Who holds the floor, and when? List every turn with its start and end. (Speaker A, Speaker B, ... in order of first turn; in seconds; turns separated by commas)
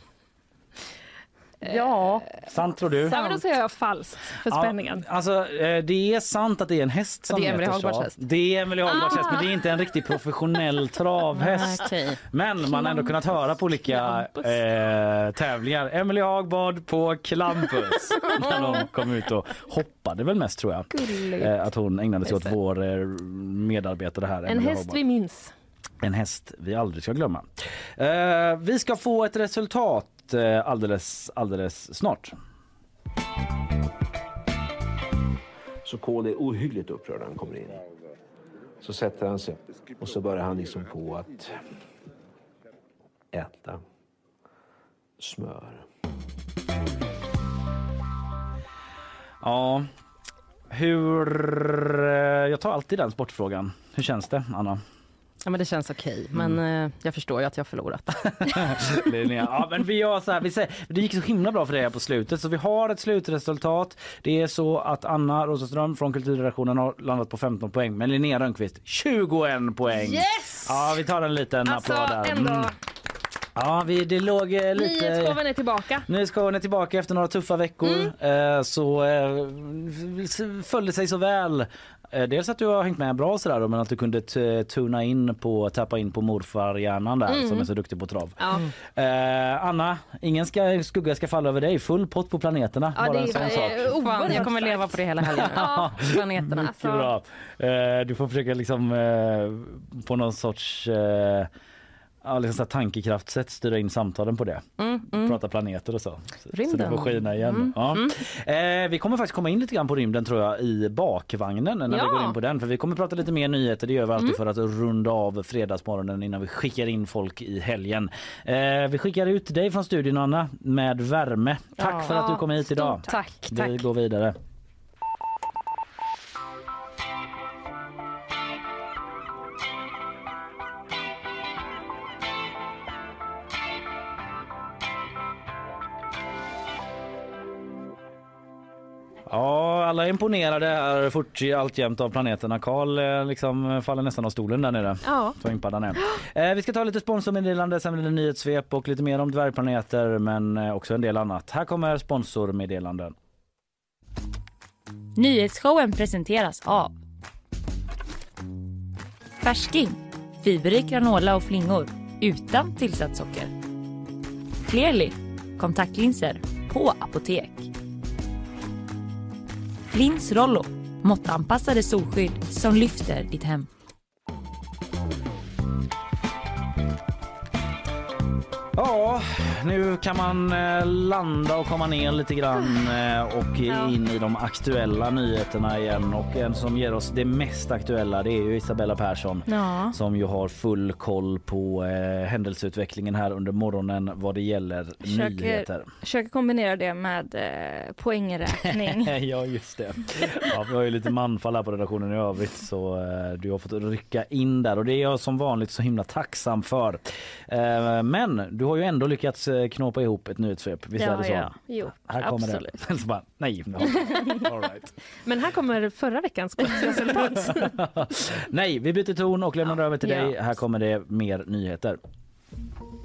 Speaker A: 1.6-2.0, Speaker B: 1.6-2.3, Speaker C: 2.4-3.4, Speaker A: 3.1-5.0, Speaker C: 4.4-25.0, Speaker B: 7.3-8.2, Speaker A: 8.9-9.4, Speaker B: 11.3-12.2, Speaker A: 12.8-13.1, Speaker A: 13.9-14.4, Speaker B: 20.9-21.6, Speaker A: 24.4-25.5, Speaker C: 26.0-32.3, Speaker D: 35.8-37.8, Speaker D: 38.8-41.5, Speaker D: 43.3-43.8, Speaker D: 45.2-45.9, Speaker C: 49.4-49.9, Speaker C: 50.7-54.8, Speaker B: 55.4-58.8, Speaker C: 56.3-56.6, Speaker C: 58.5-72.7, Speaker A: 69.9-71.0, Speaker A: 71.7-72.7, Speaker C: 73.5-75.4, Speaker A: 74.7-76.1, Speaker C: 76.0-94.5, Speaker A: 77.8-78.1, Speaker A: 87.3-87.7, Speaker A: 88.4-88.6, Speaker A: 93.0-96.0, Speaker B: 93.3-96.9, Speaker C: 95.2-101.5, Speaker A: 96.6-97.1, Speaker C: 102.2-124.4, Speaker B: 104.8-105.4, Speaker B: 106.5-108.2, Speaker A: 111.9-112.4, Speaker B: 121.8-122.2, Speaker A: 121.9-123.8, Speaker C: 139.3-153.1, Speaker A: 145.0-145.4, Speaker E: 155.2-156.9, Speaker E: 159.4-163.5, Speaker E: 164.7-167.7, Speaker E: 169.9-173.7, Speaker C: 178.7-195.9, Speaker B: 189.5-189.9, Speaker F: 195.1-199.1, Speaker C: 198.5-214.9, Speaker A: 211.0-211.4, Speaker A: 213.9-214.4, Speaker A: 215.2-217.7, Speaker C: 217.1-222.0, Speaker B: 220.0-220.3